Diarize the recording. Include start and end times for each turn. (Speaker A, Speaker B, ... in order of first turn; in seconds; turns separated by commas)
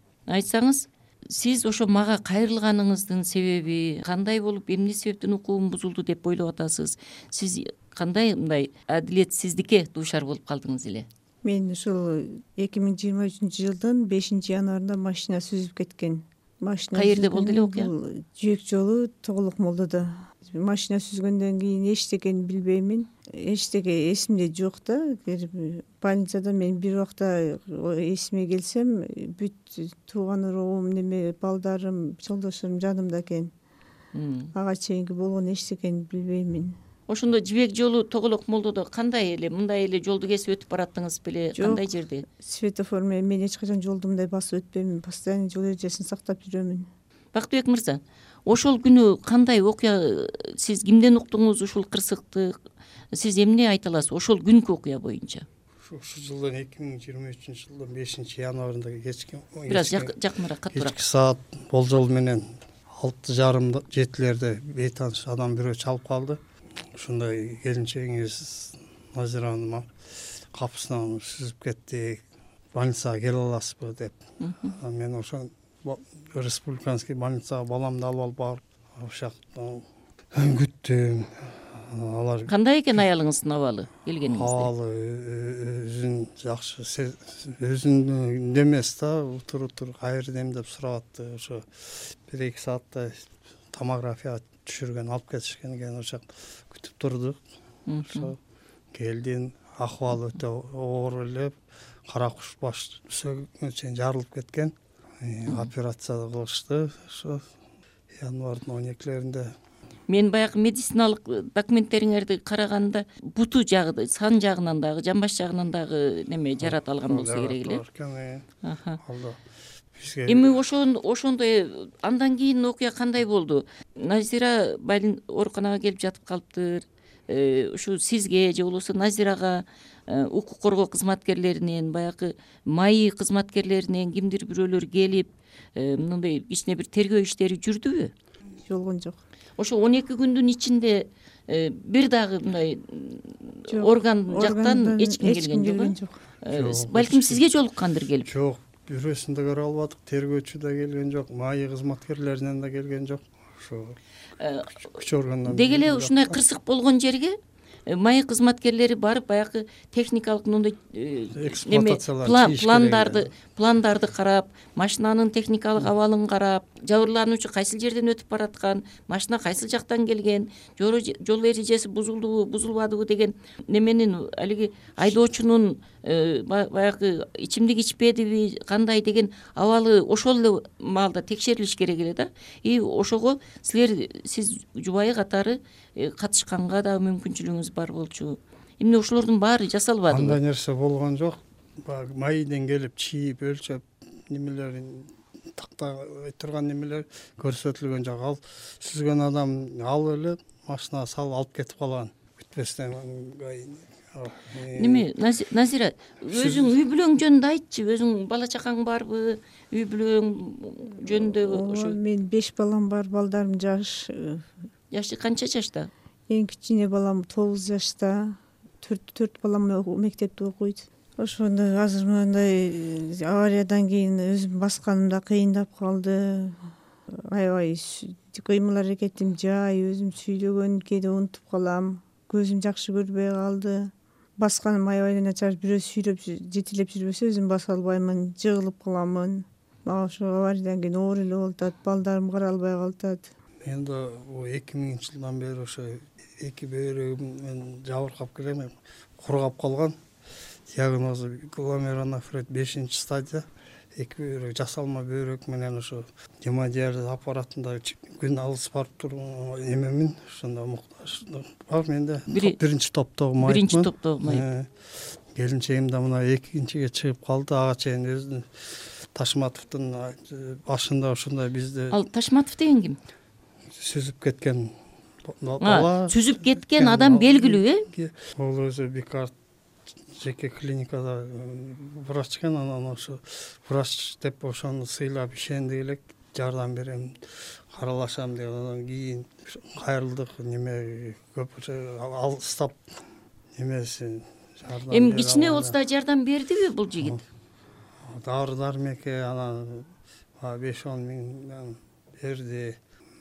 Speaker A: 0.3-11.1, Speaker B: 11.4-33.5, Speaker A: 16.9-17.9, Speaker A: 34.1-34.5, Speaker B: 34.5-36.8, Speaker A: 37.1-42.2, Speaker B: 41.5-46.9, Speaker A: 47.3-52.5, Speaker A: 53.1-55.5, Speaker C: 55.8-60.1, Speaker A: 59.7-61.0, Speaker C: 60.7-66.4, Speaker C: 67.0-69.9, Speaker C: 70.5-72.2, Speaker C: 72.8-74.2, Speaker A: 74.4-74.8, Speaker C: 74.7-82.5, Speaker A: 82.5-84.7, Speaker C: 84.3-97.4, Speaker A: 97.9-98.3, Speaker C: 98.1-98.4, Speaker C: 98.9-101.6, Speaker C: 102.1-107.4, Speaker C: 108.2-109.5, Speaker A: 110.1-117.8, Speaker C: 116.6-118.5, Speaker A: 118.6-119.0, Speaker C: 119.0-119.4, Speaker C: 120.0-120.5, Speaker A: 120.3-138.1, Speaker B: 138.7-139.2, Speaker A: 139.6-148.3, Speaker B: 143.7-146.2, Speaker C: 146.5-147.4, Speaker C: 148.3-154.0, Speaker A: 154.4-157.3, Speaker C: 155.0-156.4, Speaker A: 157.9-190.4, Speaker C: 161.3-163.3, Speaker C: 190.1-205.1, Speaker A: 204.8-212.0, Speaker C: 206.3-206.8, Speaker B: 211.1-214.5, Speaker A: 214.9-215.9, Speaker B: 216.3-226.7, Speaker B: 227.3-243.3, Speaker C: 243.6-250.0, Speaker C: 250.7-264.7, Speaker A: 262.3-262.6, Speaker A: 263.4-264.4, Speaker C: 265.4-268.5, Speaker C: 269.1-272.0, Speaker A: 271.9-273.0, Speaker C: 273.8-274.7, Speaker C: 275.4-279.3, Speaker A: 275.6-277.9, Speaker C: 280.2-287.2, Speaker C: 287.7-292.8, Speaker C: 293.6-295.8, Speaker A: 294.9-297.2, Speaker C: 298.1-299.9, Speaker C: 300.4-302.8